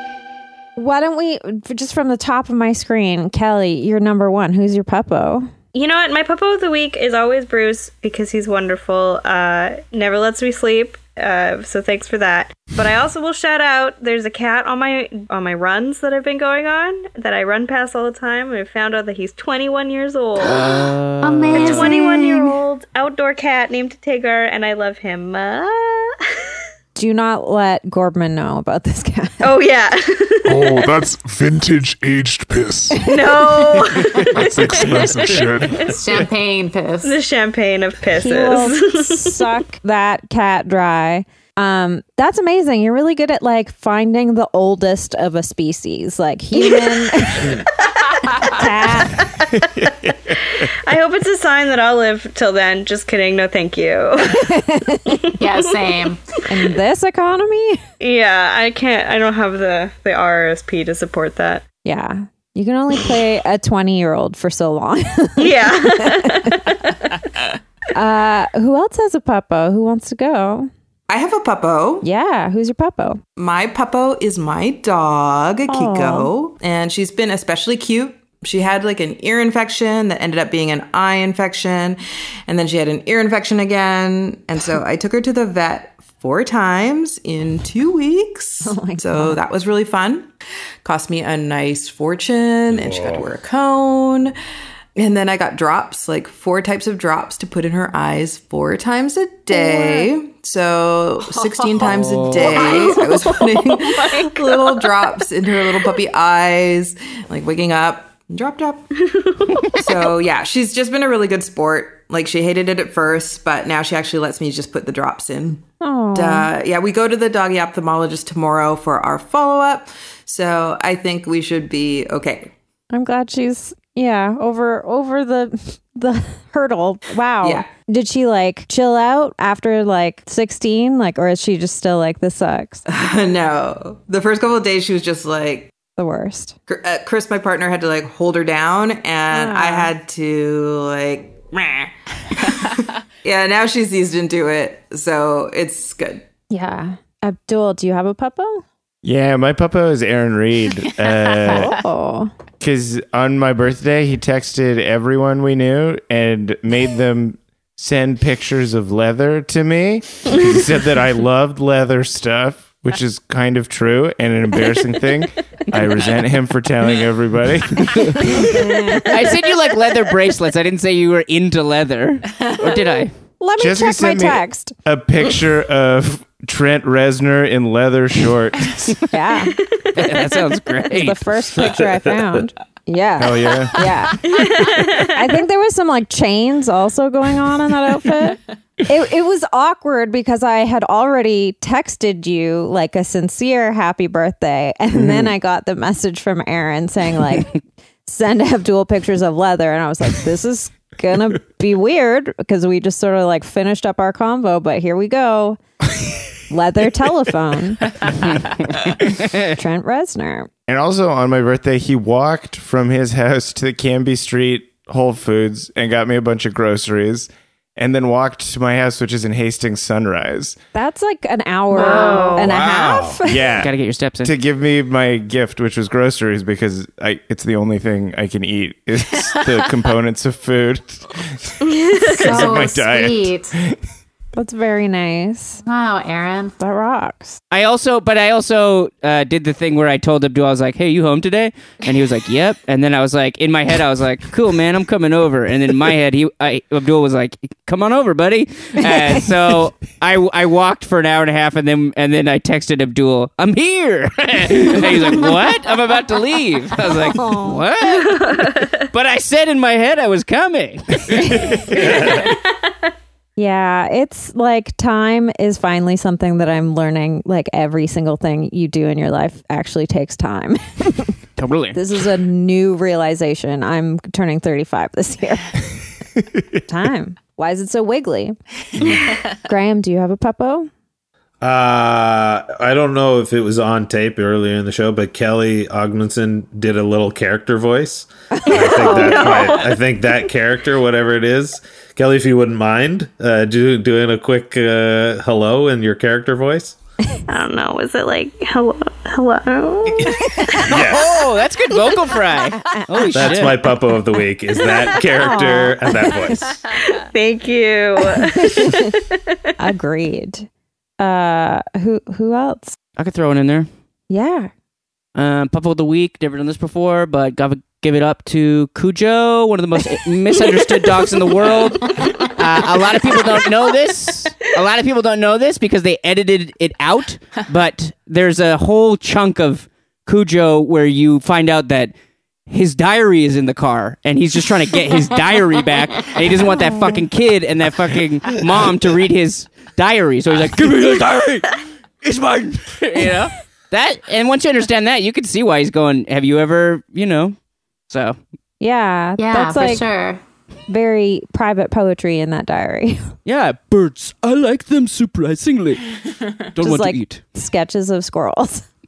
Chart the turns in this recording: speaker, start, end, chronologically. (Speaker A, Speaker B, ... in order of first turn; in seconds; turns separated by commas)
Speaker A: 0.8-5.5, Speaker B: 5.7-20.7, Speaker C: 20.5-21.9, Speaker D: 21.2-22.5, Speaker B: 21.5-26.2, Speaker A: 26.9-29.5, Speaker B: 29.4-30.9, Speaker E: 30.4-33.1, Speaker B: 33.0-35.9, Speaker A: 33.1-33.4, Speaker E: 34.3-35.8, Speaker D: 35.8-37.1, Speaker B: 37.0-39.5, Speaker A: 38.1-47.6, Speaker B: 46.6-47.0, Speaker B: 48.1-49.9, Speaker A: 48.4-49.4, Speaker B: 50.4-56.0, Speaker A: 54.4-55.2, Speaker D: 55.4-56.2, Speaker A: 56.5-57.8, Speaker B: 58.0-61.6, Speaker A: 61.8-66.6, Speaker B: 65.4-66.9, Speaker A: 67.9-70.7, Speaker F: 71.1-72.1, Speaker A: 72.0-73.2, Speaker F: 73.4-90.3, Speaker A: 75.7-76.3, Speaker A: 88.6-89.4, Speaker F: 90.8-94.3, Speaker G: 92.7-93.3, Speaker F: 95.0-108.9, Speaker A: 99.5-100.1, Speaker C: 101.8-102.6, Speaker B: 102.5-104.8, Speaker D: 102.7-103.0, Speaker B: 109.0-109.8, Speaker F: 109.7-122.5, Speaker A: 115.8-116.5, Speaker A: 122.9-132.8, Speaker F: 132.9-135.7, Speaker A: 135.9-136.6, Speaker F: 136.7-146.2, Speaker A: 139.3-139.9, Speaker A: 146.5-148.6, Speaker H: 149.0-151.7, Speaker A: 151.4-152.3, Speaker H: 152.6-168.4, Speaker A: 168.4-169.4, Speaker C: 169.1-173.1, Speaker A: 173.4-174.7, Speaker H: 173.6-179.0, Speaker A: 179.1-179.6, Speaker B: 179.6-180.0, Speaker C: 179.9-181.2, Speaker A: 180.9-205.6, Speaker H: 183.2-183.9, Speaker B: 184.2-185.2, Speaker A: 206.5-208.1, Speaker C: 208.2-209.5, Speaker A: 209.5-210.5, Speaker H: 210.7-220.6, Speaker A: 220.7-223.6, Speaker B: 221.7-222.6, Speaker D: 221.7-222.4, Speaker G: 222.4-223.2, Speaker H: 223.2-223.7, Speaker C: 223.6-224.3, Speaker H: 224.2-231.2, Speaker B: 231.6-232.4, Speaker H: 232.0-233.8, Speaker D: 232.1-233.5, Speaker A: 234.3-235.6, Speaker D: 235.6-236.6, Speaker A: 236.6-237.4, Speaker C: 237.5-261.4, Speaker A: 256.9-257.6, Speaker B: 257.8-258.9, Speaker G: 261.8-262.1, Speaker A: 263.4-271.1, Speaker C: 271.4-271.8, Speaker A: 271.7-275.6, Speaker A: 276.7-280.7, Speaker G: 281.4-296.8, Speaker B: 288.5-289.8, Speaker A: 288.5-289.1, Speaker B: 297.3-300.3, Speaker G: 300.6-301.1, Speaker C: 300.7-303.6, Speaker A: 303.0-303.3, Speaker G: 303.1-306.6, Speaker A: 305.1-306.4, Speaker B: 306.8-309.5, Speaker A: 308.1-308.9, Speaker A: 309.6-310.5, Speaker A: 311.0-312.8, Speaker C: 312.9-313.7, Speaker A: 314.1-314.5, Speaker C: 315.1-331.9, Speaker C: 332.5-347.4, Speaker C: 347.9-348.2, Speaker A: 348.6-349.9, Speaker D: 349.2-350.2, Speaker A: 350.7-353.1, Speaker C: 353.2-355.9, Speaker C: 356.5-357.2, Speaker A: 356.6-358.7